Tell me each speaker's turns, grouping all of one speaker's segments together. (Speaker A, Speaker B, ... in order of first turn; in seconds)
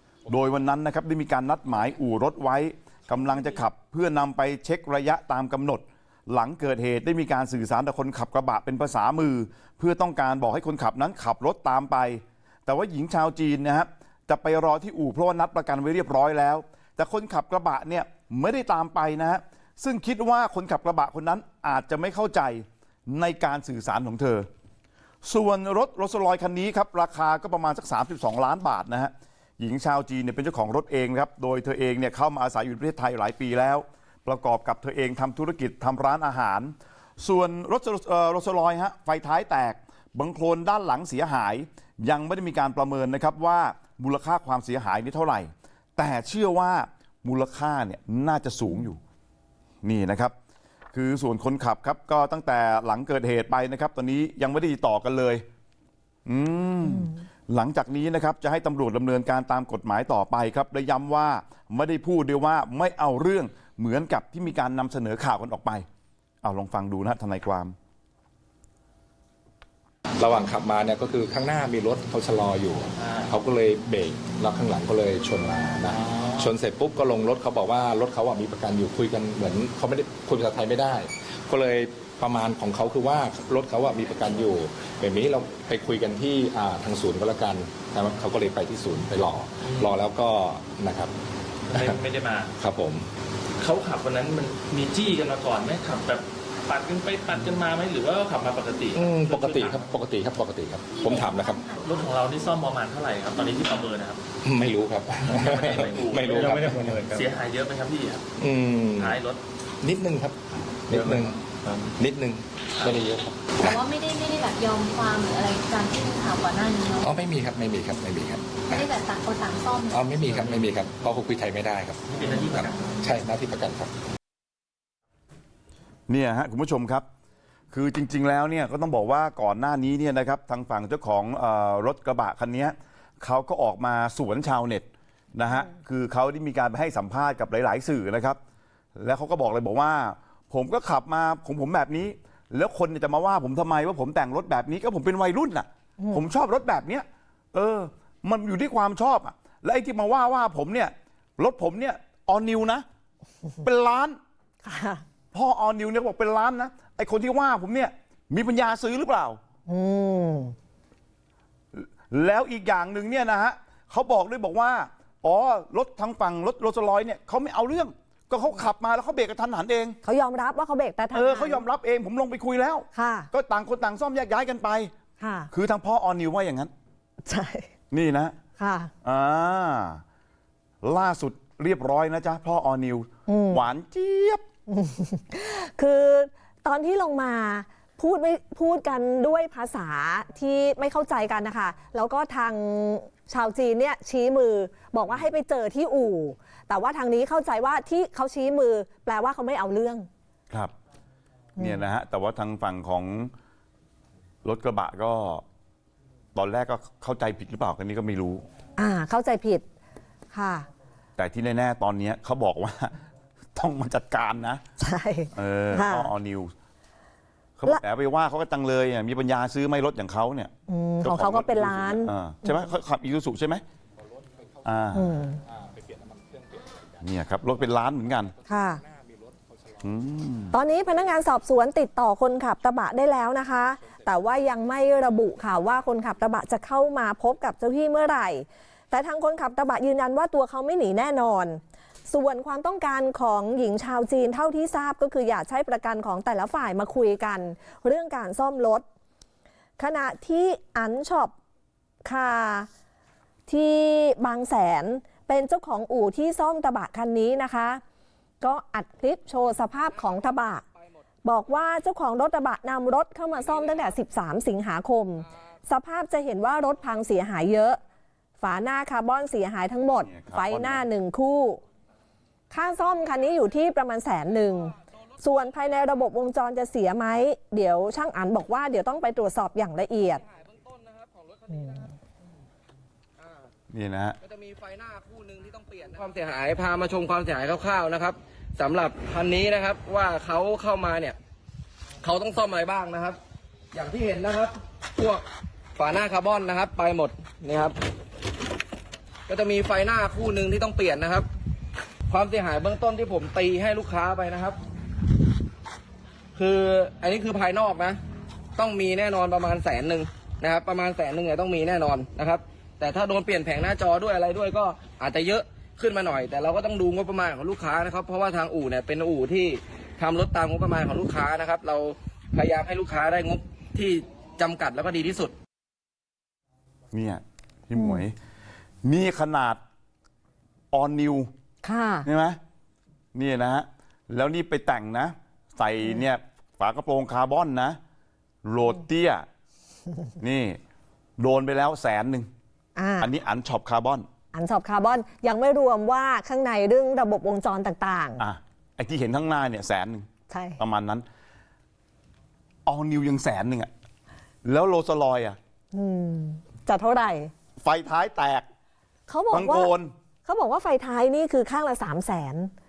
Speaker A: 0.3-24.5, 25.2-49.0, 49.8-50.3, 50.9-55.4, 56.3-65.9, 66.4-67.8, 126.1-127.1, 127.7-138.4, 139.0-152.8, 153.6-154.2, 155.3-159.4, 161.7-170.0, 171.1-174.9, 175.5-176.7, 177.9-178.4, 179.0-180.0, 180.8-184.4, 201.6-203.3, 204.4-205.4, 206.3-208.4, 211.2-213.0, 213.6-214.6, 215.3-216.5, 217.6-223.6, 224.7-225.1, 227.0-228.3, 229.8-230.6, 270.0-270.8, 283.7-284.2, 326.9-328.1, 328.8-329.6, 330.7-331.3, 332.0-332.4, 333.1-337.8, 338.4-339.3, 340.2-340.6, 341.2-342.3, 343.0-344.1, 348.2-351.1, 352.7-353.7, 354.4-355.4, 357.6-358.5, 359.3-359.9
Speaker B: 70.2-91.1, 91.7-92.0, 92.6-93.1, 99.0-101.7, 104.4-107.1, 108.4-109.2, 109.8-111.4, 112.0-113.8, 117.0-118.9, 119.9-123.9, 224.2-230.1, 233.8-234.4
Speaker C: 73.0-73.3, 75.9-76.5, 89.6-90.0, 91.7-92.5, 93.6-99.9, 101.8-104.2, 105.3-108.3, 109.0-109.4, 110.9-111.9, 120.4-120.7, 122.1-123.0
Speaker D: 100.9-102.2, 113.6-117.1, 118.7-120.3
Speaker E: 146.0-146.2, 154.6-155.0, 159.7-160.6, 170.0-171.7, 172.9-173.3, 175.2-175.5, 177.3-177.7, 178.6-178.9, 183.3-183.6, 184.7-200.1, 201.6-201.8, 208.8-209.6, 210.3-210.7, 214.8-216.1, 220.7-222.7, 224.9-225.4, 228.5-228.8, 230.5-248.8, 249.8-251.3, 252.1-252.7, 253.5-257.8, 258.4-260.6, 261.2-267.8, 268.4-271.6, 272.5-280.2, 281.5-281.9, 327.8-328.0, 331.6-332.1, 342.8-343.1, 344.3-348.2, 350.3-350.6, 355.7-357.3, 359.1-359.7, 360.3-362.5
Speaker F: 280.4-281.5, 284.2-291.2, 292.0-293.2, 293.7-295.2, 295.8-297.8, 299.3-301.3, 302.1-304.6, 306.4-308.0, 308.6-325.4